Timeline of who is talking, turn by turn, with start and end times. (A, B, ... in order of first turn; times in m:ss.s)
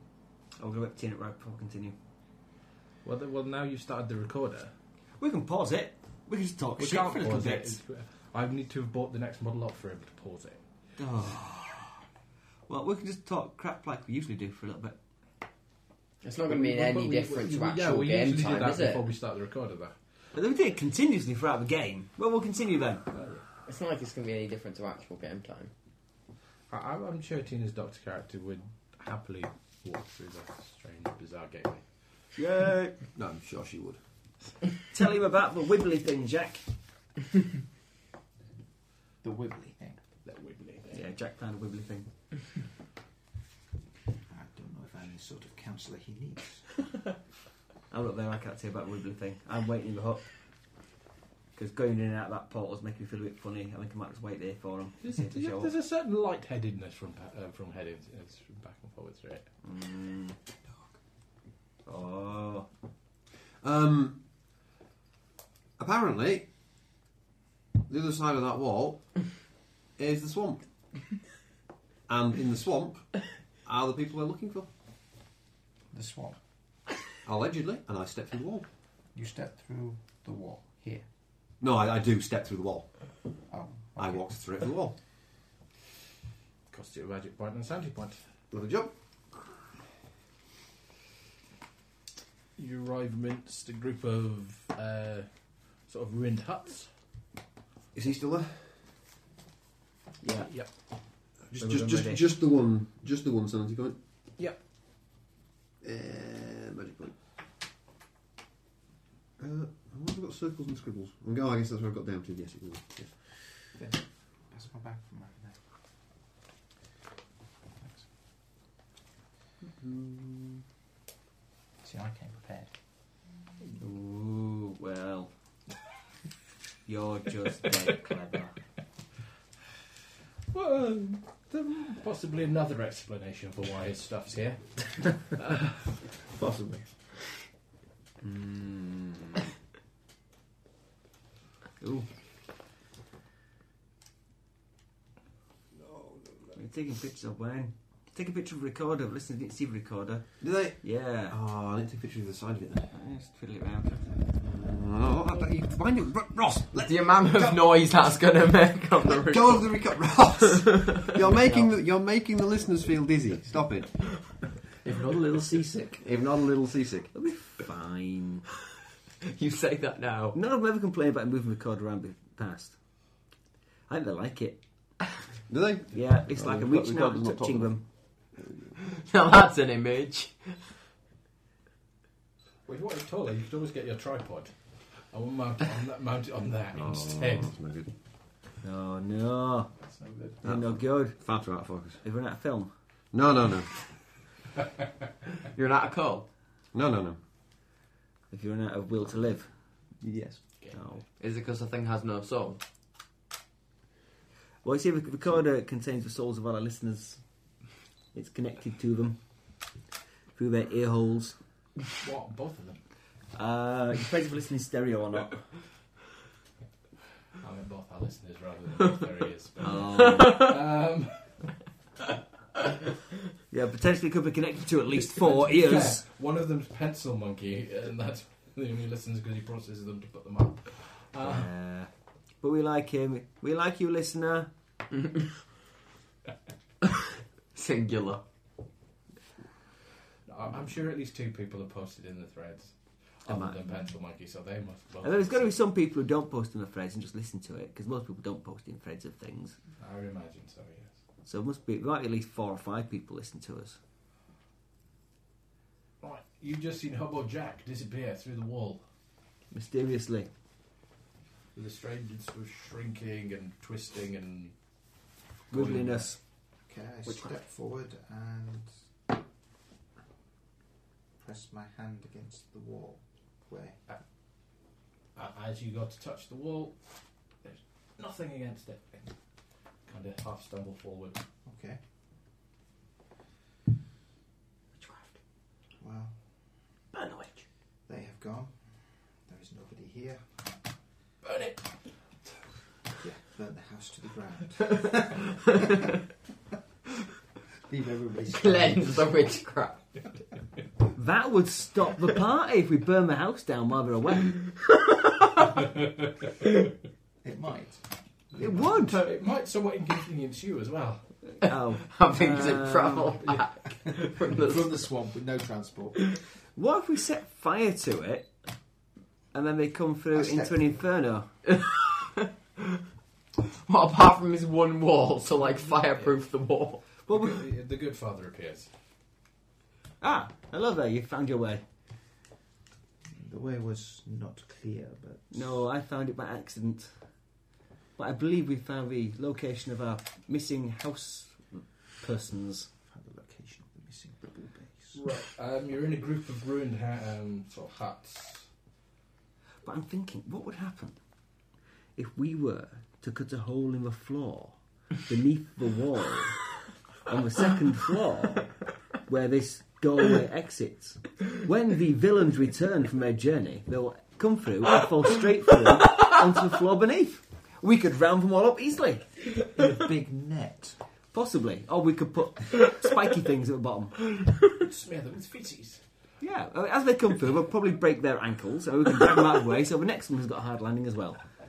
0:00.6-0:02.0 A
0:03.0-0:04.7 B
0:05.2-0:07.8 A
0:06.8-0:10.6 B
0:11.0-0:11.9 A
0:12.7-0:15.0 A
0:16.2-0:19.1 C
0:16.5-0:19.9 B
0:20.3-0:23.0 A
0:23.1-0:23.4 B
0:23.6-0:25.7 C
0:26.7-0:31.8 B
0:32.4-0:33.0 A
0:33.1-0:34.0 D
0:34.9-0:36.6 A
0:39.2-0:40.0 E
0:40.2-0:41.0 B
0:40.9-0:42.1 A
0:44.3-0:46.7 E
0:47.9-0:50.2 A
0:51.5-0:55.7 A
0:55.0-0:59.5 B
0:59.6-1:00.4 A
1:01.8-1:02.7 A
1:03.6-1:04.2 D
1:05.8-1:06.4 D
1:07.9-1:10.6 D
1:12.1-1:14.7 D
1:15.9-1:16.4 E
1:17.2-1:18.7 D
1:19.1-1:21.0 E
1:21.6-1:22.9 D
1:23.5-1:24.2 E
1:24.0-1:25.0 D
1:26.7-1:28.2 B
1:28.5-1:28.9 D
1:32.6-1:35.3 B
1:35.8-1:36.9 B
1:37.9-1:38.7 D
1:40.2-1:40.5 A
1:41.5-1:44.0 D
1:41.6-1:42.3 A
1:45.8-1:47.1 D
1:49.4-1:53.1 D
1:53.7-1:55.6 E
1:57.8-1:58.0 E
1:59.8-2:00.5 A
2:01.8-2:02.7 E
2:03.8-2:05.3 A
2:06.8-2:08.6 A
2:10.5-2:15.9 B
2:16.3-2:17.3 E
2:18.2-2:19.4 A
2:21.8-2:22.1 A
2:25.8-2:26.6 D
2:26.5-2:31.4 A
2:30.4-2:32.9 D
2:32.9-2:34.1 A
2:34.4-2:37.7 D
2:36.7-2:39.9 C
2:39.0-2:44.2 D
2:44.8-2:46.0 C
2:46.0-2:47.1 D
2:47.1-2:48.5 A
2:49.2-2:50.4 C
2:50.3-2:52.8 A
2:53.9-2:54.6 A
2:55.5-2:57.8 D
2:55.9-2:57.8 A
2:58.4-2:58.7 D
2:59.0-3:00.7 C
3:02.6-3:07.5 B
3:06.7-3:07.9 D
3:08.6-3:09.7 A
3:09.9-3:10.3 B
3:10.4-3:12.0 D
3:10.4-3:11.2 A
3:12.0-3:12.7 A
3:13.1-3:13.8 D
3:15.5-3:16.3 C
3:16.7-3:17.2 D
3:18.3-3:19.5 A
3:20.0-3:20.4 D
3:20.7-3:21.0 A
3:21.2-3:22.6 C
3:24.6-3:27.2 A
3:28.1-3:29.2 A
3:30.3-3:31.4 A
3:32.0-3:32.8 B
3:33.3-3:35.5 A
3:37.4-3:41.5 B
3:39.6-3:40.4 A
3:43.5-3:46.0 A
3:45.0-3:51.5 B
3:51.2-3:54.5 A
3:57.5-3:58.2 C
4:00.2-4:05.5 B
4:03.2-4:03.6 A
4:05.0-4:09.6 A
4:09.8-4:10.9 B
4:11.2-4:13.8 A
4:16.0-4:18.8 B
4:19.5-4:20.3 A
4:21.5-4:24.5 B
4:25.5-4:26.1 B
4:25.5-4:26.2 A
4:26.6-4:28.7 E
4:31.2-4:33.9 E
4:35.1-4:36.8 B
4:37.4-4:39.1 B
4:39.8-4:41.2 B
4:41.4-4:41.8 E
4:45.8-4:46.2 E
4:46.9-4:47.4 A
4:47.9-4:50.2 E
4:51.2-4:51.7 B
4:53.0-4:55.9 E
4:57.7-4:59.2 E
4:58.3-4:59.8 C
5:00.9-5:04.5 A
5:07.2-5:09.0 E
5:08.4-5:09.1 A
5:08.9-5:11.4 B
5:11.4-5:13.2 A
5:11.8-5:14.9 C
5:13.8-5:16.0 E
5:16.6-5:18.3 A
5:19.3-5:21.3 A
5:20.1-5:20.8 E
5:21.5-5:22.6 C
5:23.6-5:26.8 C
5:27.1-5:27.4 A
5:27.1-5:28.7 B
5:30.0-5:31.6 A
5:33.1-5:35.6 E
5:35.3-5:37.0 A
5:38.0-5:42.7 A
5:42.9-5:45.0 E
5:44.9-5:48.5 B
5:49.6-5:51.0 A
5:52.0-6:09.2 A
6:09.5-6:10.8 E
6:11.1-6:14.1 A
6:14.5-6:15.8 B
6:16.2-6:21.3 A